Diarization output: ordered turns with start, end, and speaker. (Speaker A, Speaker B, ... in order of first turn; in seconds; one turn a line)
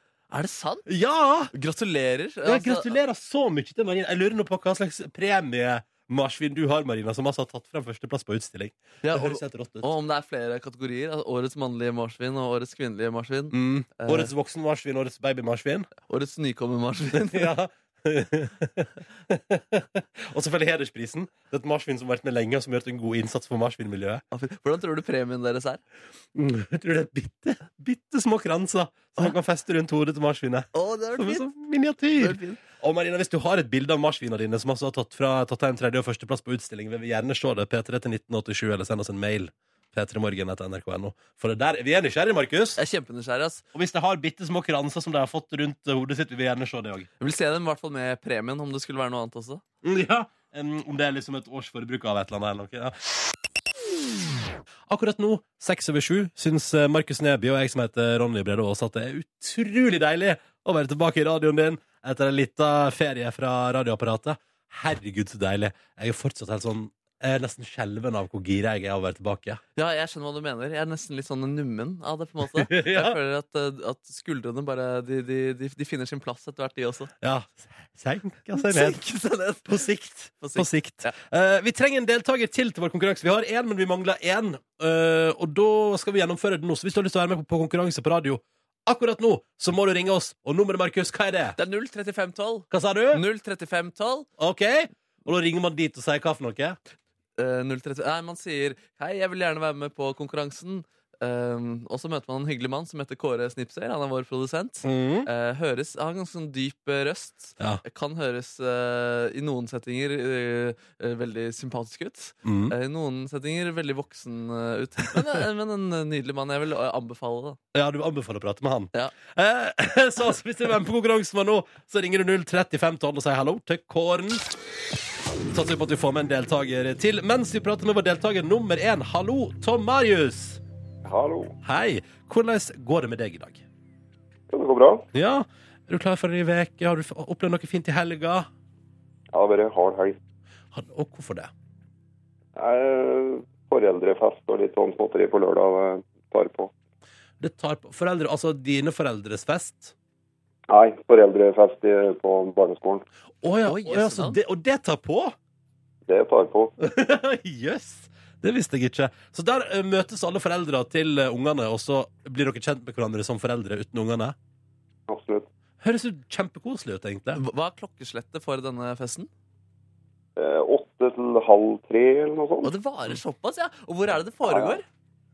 Speaker A: 0.3-0.9
Speaker B: 0.9-1.5
Speaker A: 1.5-3.0
Speaker B: 2.5-9.9
Speaker A: 9.0-14.3
Speaker B: 13.5-15.9
Speaker A: 16.1-17.5
Speaker B: 17.2-24.2
Speaker A: 24.3-25.8
Speaker B: 26.3-42.8
Speaker A: 30.7-31.5
Speaker A: 32.2-32.6
Speaker A: 42.8-43.6
Speaker B: 43.7-47.1
Speaker A: 47.2-49.6
Speaker B: 49.8-53.0
Speaker B: 54.9-69.6
Speaker A: 69.8-77.1
Speaker B: 72.5-73.2
Speaker B: 77.2-79.0
Speaker A: 78.6-79.9
Speaker B: 79.7-91.6
Speaker A: 80.4-81.2
Speaker A: 91.6-94.3
Speaker B: 92.7-93.2
Speaker B: 94.4-96.8
Speaker A: 97.4-117.6
Speaker B: 104.8-105.3
Speaker B: 112.4-112.8
Speaker B: 117.7-124.5
Speaker B: 125.5-130.6
Speaker C: 131.1-131.5
Speaker B: 131.6-133.6
Speaker C: 134.5-135.1
Speaker B: 135.1-138.5
Speaker C: 139.3-140.2
Speaker B: 140.7-141.5
Speaker C: 142.6-146.7
Speaker B: 147.4-149.9
Speaker C: 150.7-153.1
Speaker B: 153.4-155.4
Speaker A: 153.7-154.4
Speaker C: 156.1-156.7
Speaker B: 156.8-164.4
Speaker C: 165.1-165.5
Speaker B: 165.8-167.4
Speaker A: 167.4-169.3
Speaker C: 170.4-172.7
Speaker A: 172.6-174.8
Speaker C: 174.4-174.8